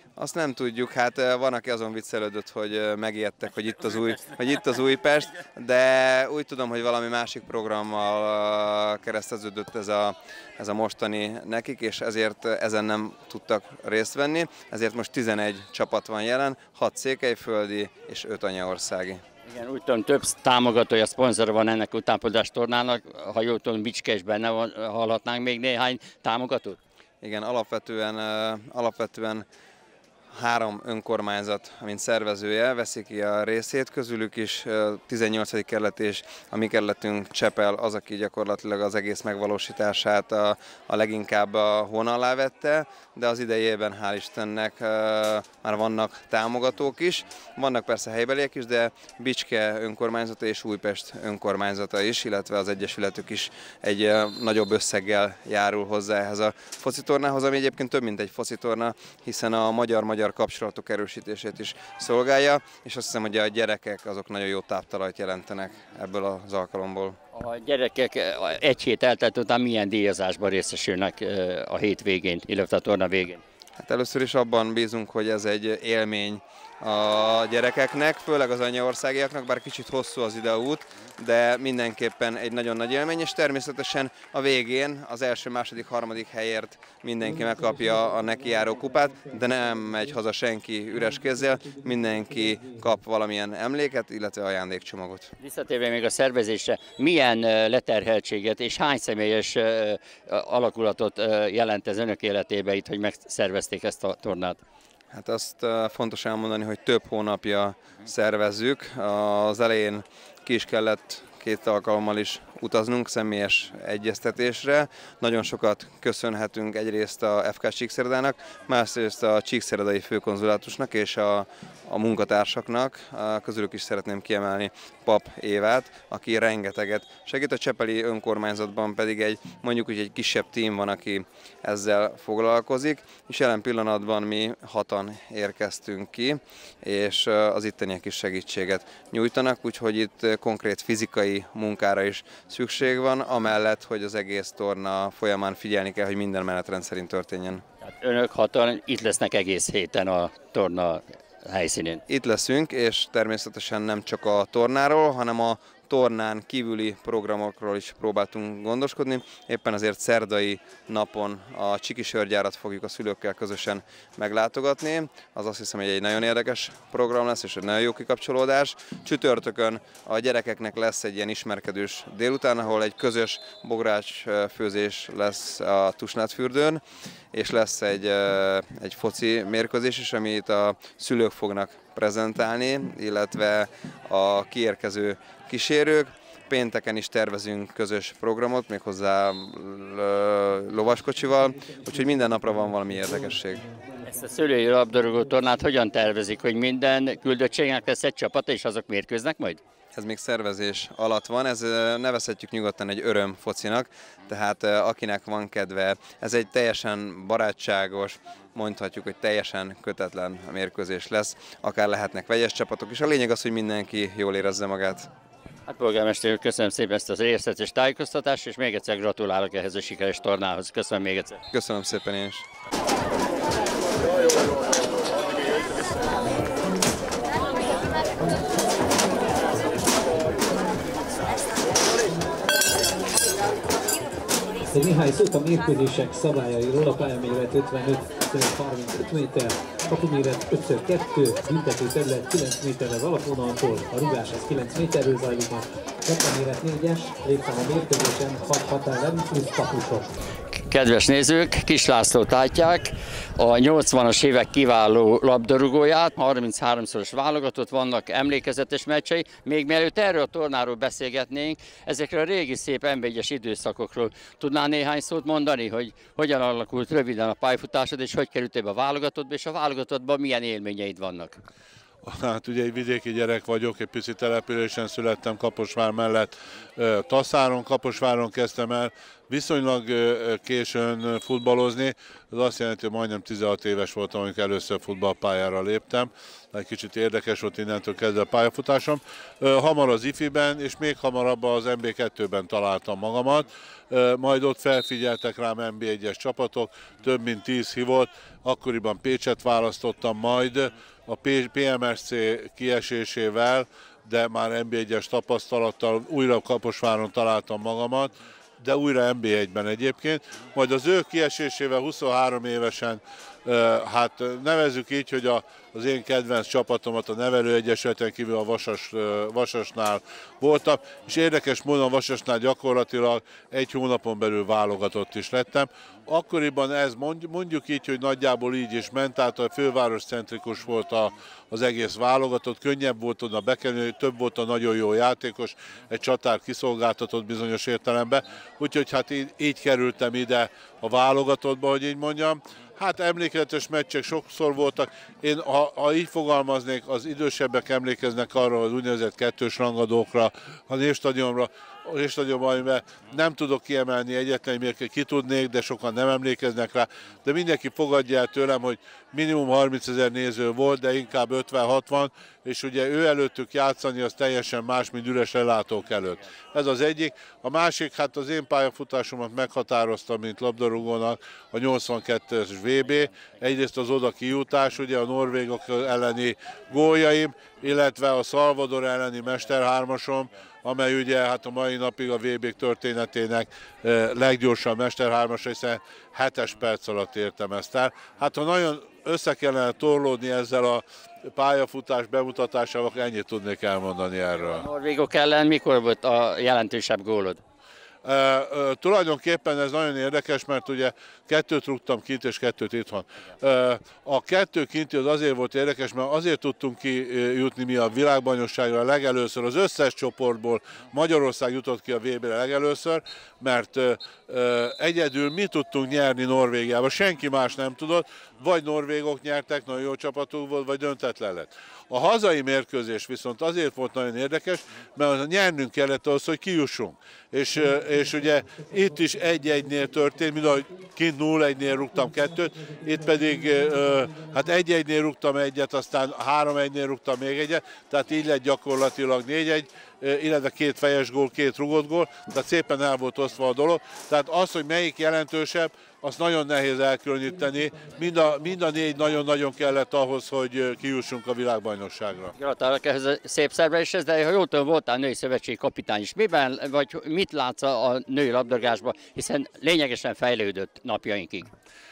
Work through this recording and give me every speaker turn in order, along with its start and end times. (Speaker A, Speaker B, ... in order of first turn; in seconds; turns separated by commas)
Speaker A: 0.2-19.2, Speaker B: 19.5-26.8, Speaker A: 27.2-29.5, Speaker A: 30.3-67.2, Speaker B: 67.3-73.4, Speaker A: 73.8-95.3, Speaker B: 95.4-104.6, Speaker A: 105.1-147.6, Speaker B: 147.8-152.0, Speaker A: 152.1-176.8, Speaker A: 177.3-193.6, Speaker B: 194.0-199.6, Speaker A: 199.9-215.1, Speaker B: 215.7-221.4, Speaker A: 221.5-222.4, Speaker C: 234.7-250.1, Speaker B: 250.6-271.4, Speaker D: 272.0-394.7, Speaker B: 394.4-397.4, Speaker D: 398.0-452.3, Speaker B: 452.4-461.5